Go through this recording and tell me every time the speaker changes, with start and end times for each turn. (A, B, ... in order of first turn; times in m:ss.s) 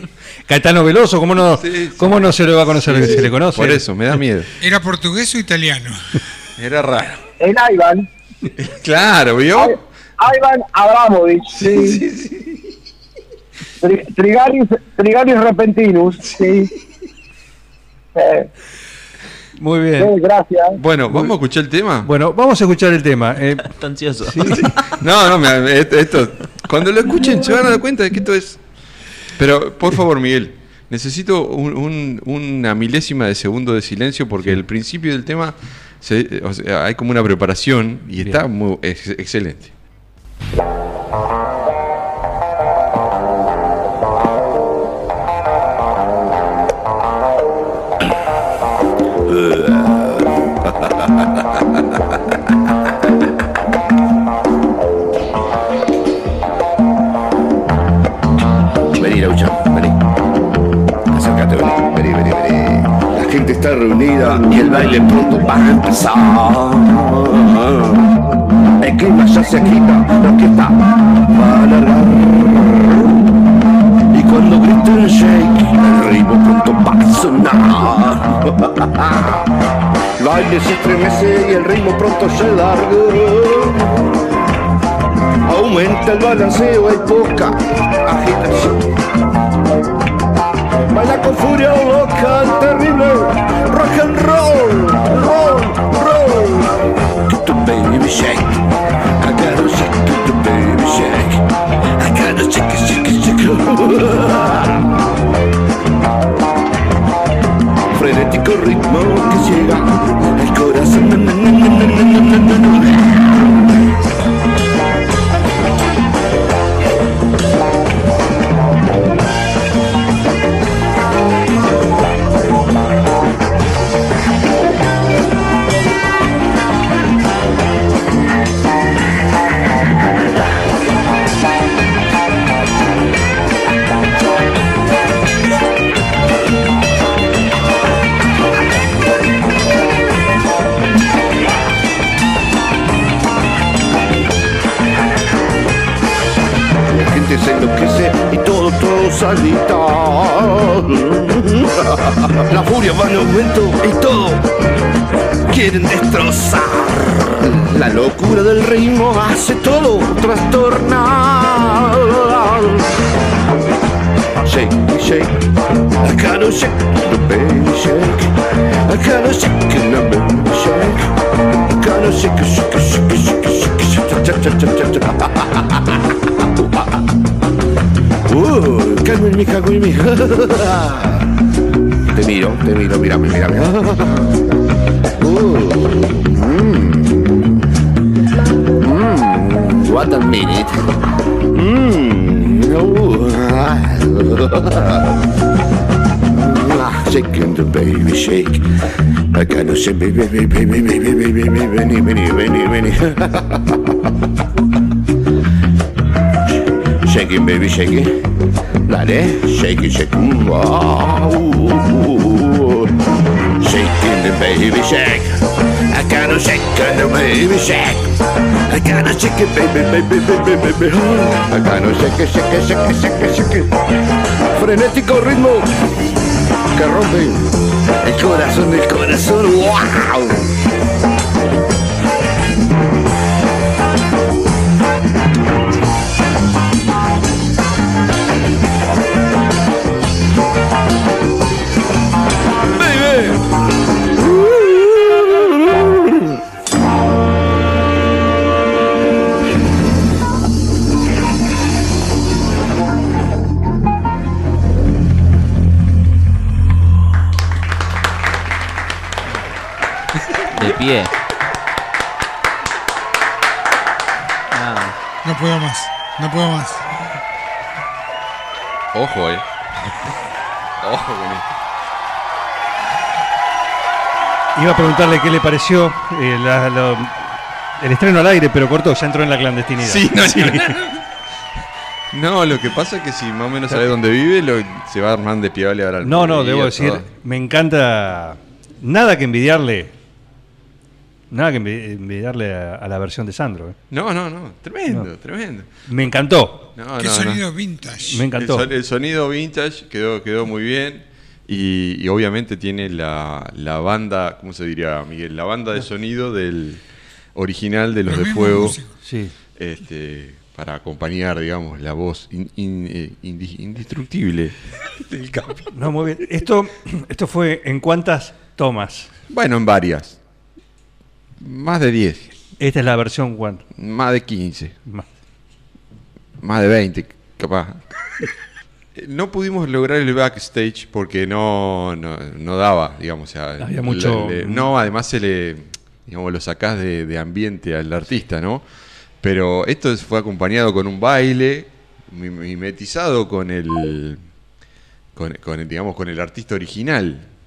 0:00.5-0:03.8 A
0:01.5-0:04.5 B
0:04.6-0:06.0 C
0:06.6-0:07.2 B
0:07.4-0:08.1 D
0:08.6-0:09.8 B
0:09.5-0:12.0 D
0:11.6-0:12.6 B
0:13.8-0:16.7 D
0:18.2-0:18.5 D
0:19.6-0:20.1 A
0:20.0-0:20.8 D
0:20.8-0:22.1 B
0:21.1-0:21.4 A
0:22.0-0:23.7 A
0:23.6-0:24.7 E
0:24.2-0:24.7 A
0:25.0-0:28.6 B
0:29.4-0:39.7 B
0:38.2-0:38.4 A
0:49.3-0:50.3 F
0:59.0-1:00.0 F
1:01.1-1:08.0 F
1:08.8-1:13.0 F
1:14.1-1:19.5 F
1:20.2-1:23.8 F
1:25.5-1:28.8 F
1:30.9-1:36.7 F
1:37.2-1:38.6 F
1:39.2-1:41.4 F
1:42.0-1:44.8 F
1:47.9-1:53.3 F
2:26.9-2:34.5 F
2:35.5-2:42.9 F
2:44.4-2:45.4 F
2:46.0-2:48.3 F
2:48.9-2:51.1 F
2:51.7-2:56.0 F
2:58.3-3:01.2 F
3:02.1-3:04.4 F
3:05.2-3:07.4 F
3:08.8-3:10.8 F
3:11.5-3:15.1 F
3:16.3-3:18.6 F
3:19.3-3:23.6 F
3:27.0-3:28.2 F
3:28.9-3:32.9 F
3:33.6-3:38.1 F
3:38.7-3:43.7 F
3:44.6-3:45.7 F
3:46.7-3:50.4 F
4:04.5-4:04.8 F
4:20.5-4:21.1 E
4:24.5-4:25.0 E
4:25.2-4:26.8 C
4:28.9-4:29.4 B
4:30.8-4:31.4 B
4:34.6-4:37.2 A
4:37.8-4:40.8 A
4:39.8-4:41.0 B
4:42.1-4:47.1 B
4:46.0-4:49.9 A
4:51.3-4:53.8 A
4:53.9-4:55.7 B
4:55.9-4:56.7 A
4:56.8-4:57.4 B
4:57.0-4:58.2 C
4:58.0-4:58.7 A
4:58.3-5:06.8 B
5:07.4-5:08.8 B
5:08.1-5:08.9 C
5:09.0-5:09.3 A
5:09.6-5:15.7 B
5:15.7-5:19.1 A
5:19.3-5:20.2 B
5:21.4-5:22.3 B
5:22.6-5:23.6 A
5:23.8-5:24.8 B
5:26.4-5:27.8 B
5:29.0-5:38.6 B
5:33.6-5:34.7 A
5:39.2-5:44.2 B
5:45.2-5:47.3 B